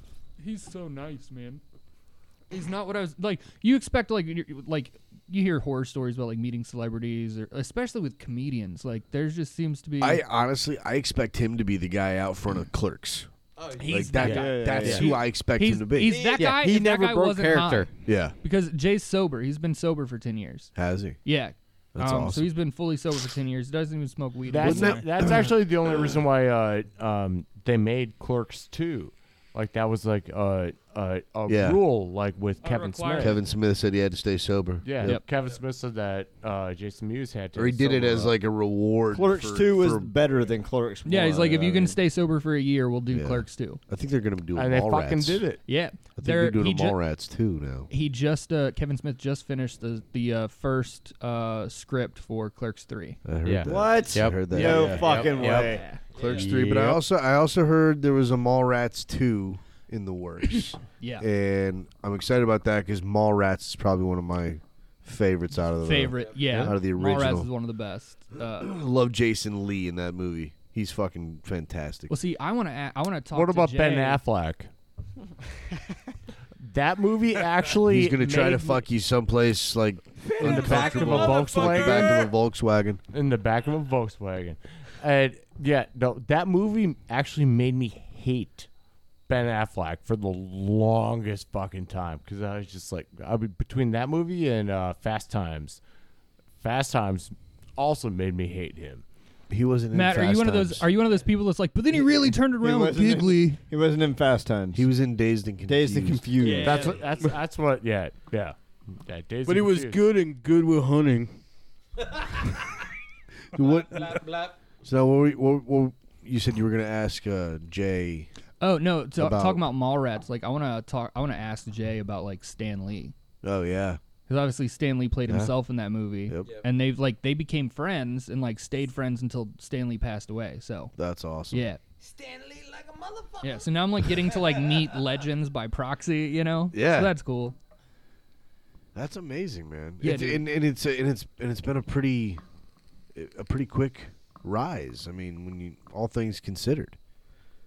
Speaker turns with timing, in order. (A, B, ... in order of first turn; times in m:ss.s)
0:00.4-0:01.6 A
0:02.5-0:10.2 A
0:10.0-0:13.3 B
0:13.6-0:14.5 C
0:13.8-0:14.6 A
0:13.8-0:16.2 B
0:14.2-0:15.1 D
0:14.2-0:15.1 E
0:15.5-0:20.7 A
0:16.0-0:16.6 C
0:16.4-0:17.9 D
0:18.0-0:18.4 B
0:20.8-0:21.2 B
0:21.2-0:25.5 A
0:21.9-0:22.5 B
0:24.5-0:33.4 F
0:24.6-0:25.5 B
0:31.5-0:31.8 B
0:32.6-0:33.4 A
0:33.2-0:35.2 B
0:34.8-0:38.4 F
0:37.5-0:40.1 B
0:39.1-0:42.0 E
0:41.0-0:43.8 A
0:43.1-0:45.4 B
0:44.5-0:45.6 F
0:45.6-0:47.0 A
0:46.2-0:47.9 B
0:47.9-0:53.2 A
0:53.2-0:55.3 B
0:53.4-0:57.0 D
0:53.6-0:55.8 E
0:55.1-0:56.0 A
0:56.1-0:56.5 C
0:56.2-1:07.5 B
1:01.0-1:01.2 A
1:05.8-1:08.7 A
1:06.1-1:06.6 C
1:08.6-1:12.1 B
1:12.1-1:14.2 A
1:13.3-1:14.7 F
1:16.6-1:18.8 F
1:17.8-1:23.0 B
1:20.2-1:22.3 C
1:20.4-1:22.2 F
1:23.1-1:28.7 F
1:29.3-1:35.8 F
1:36.6-1:39.0 F
1:39.5-1:40.9 B
1:39.9-1:43.6 A
1:42.6-1:44.9 E
1:44.7-1:46.6 B
1:45.7-1:46.9 E
1:46.4-1:47.1 A
1:46.4-1:50.0 F
1:49.4-1:51.4 D
1:52.0-1:52.4 C
1:53.5-1:54.1 B
1:53.6-1:54.6 C
1:54.8-1:58.3 B
1:58.6-2:03.1 A
1:59.2-1:59.6 B
2:03.4-2:04.0 B
2:04.3-2:10.9 A
2:05.3-2:05.5 B
2:11.0-2:11.6 B
2:11.5-2:11.8 A
2:12.0-2:13.7 C
2:13.4-2:17.6 A
2:16.7-2:17.1 B
2:18.9-2:22.4 B
2:20.0-2:20.4 A
2:23.1-2:27.0 B